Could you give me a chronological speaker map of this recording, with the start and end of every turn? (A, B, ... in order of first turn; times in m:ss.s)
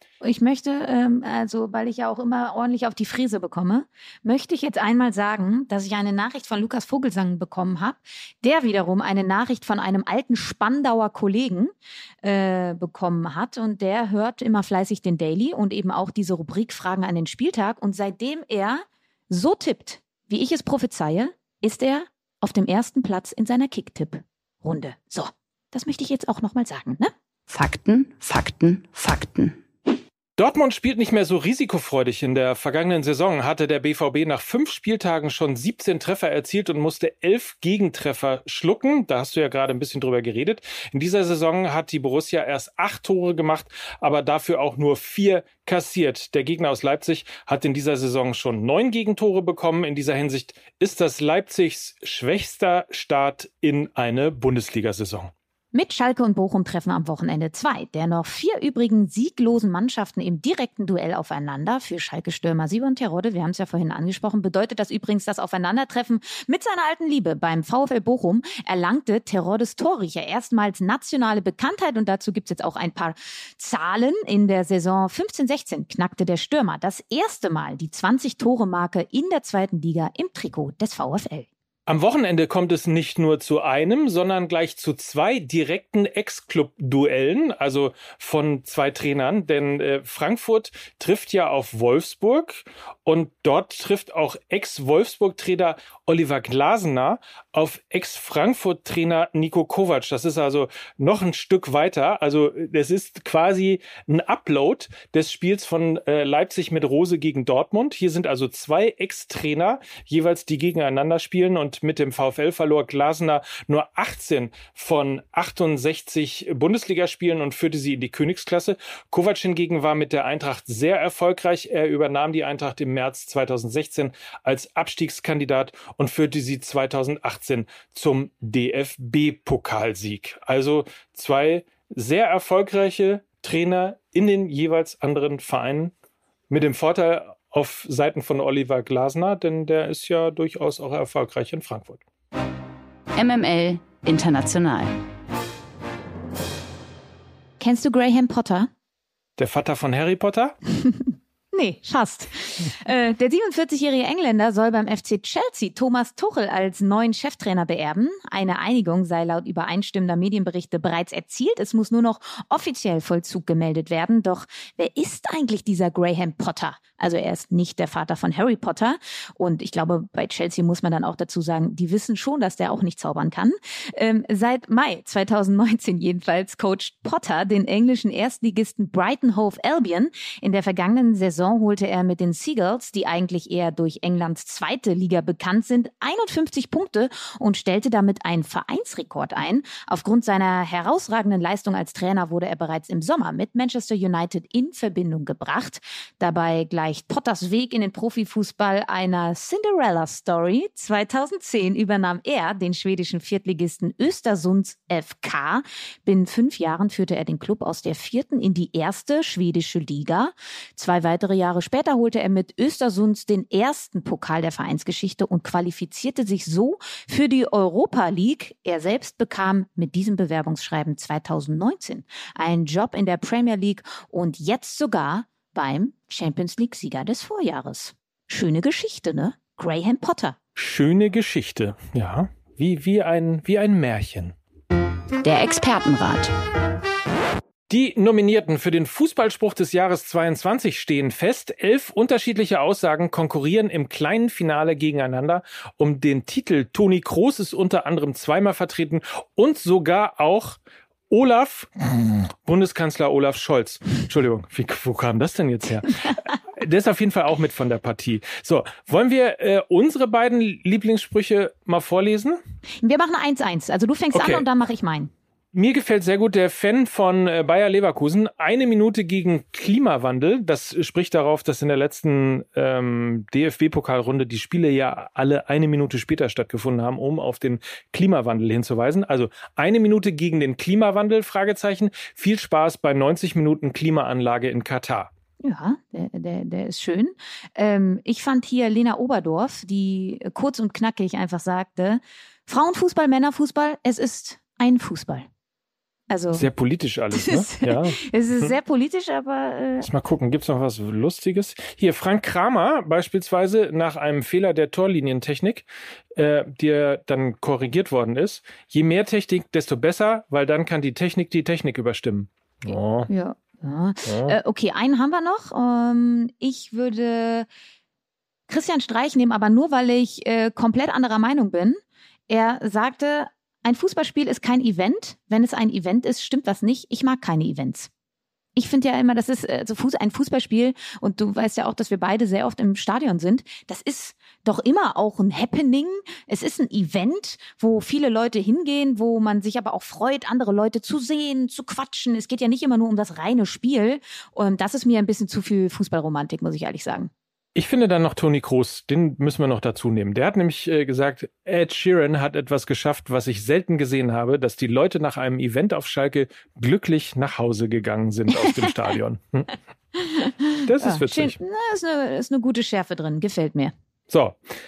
0:00.2-0:27.1 A
0:27.5-0:29.6 B
0:30.4-0:55.3 C
0:55.7-1:21.5 A
1:21.9-2:15.9 C
2:16.5-2:22.0 C
2:23.1-2:25.0 B
2:27.6-2:28.7 A
2:29.4-2:30.6 C
2:31.5-3:50.4 A
3:50.6-3:54.3 C
3:55.2-3:56.3 B
3:57.7-4:22.4 C
4:22.8-4:25.1 A
4:24.1-4:24.5 C
4:25.5-4:45.1 C
4:45.4-4:55.2 A
4:56.1-4:56.5 A
4:56.3-4:58.5 C
4:57.1-4:59.9 A
4:59.8-5:13.1 C
5:13.1-5:17.5 A
5:14.1-5:14.4 C
5:18.5-5:21.8 A
5:22.3-5:27.9 A
5:28.5-5:47.1 A
5:47.5-5:59.5 C
6:00.0-6:03.7 A
6:00.6-6:01.4 C
6:04.1-6:04.4 C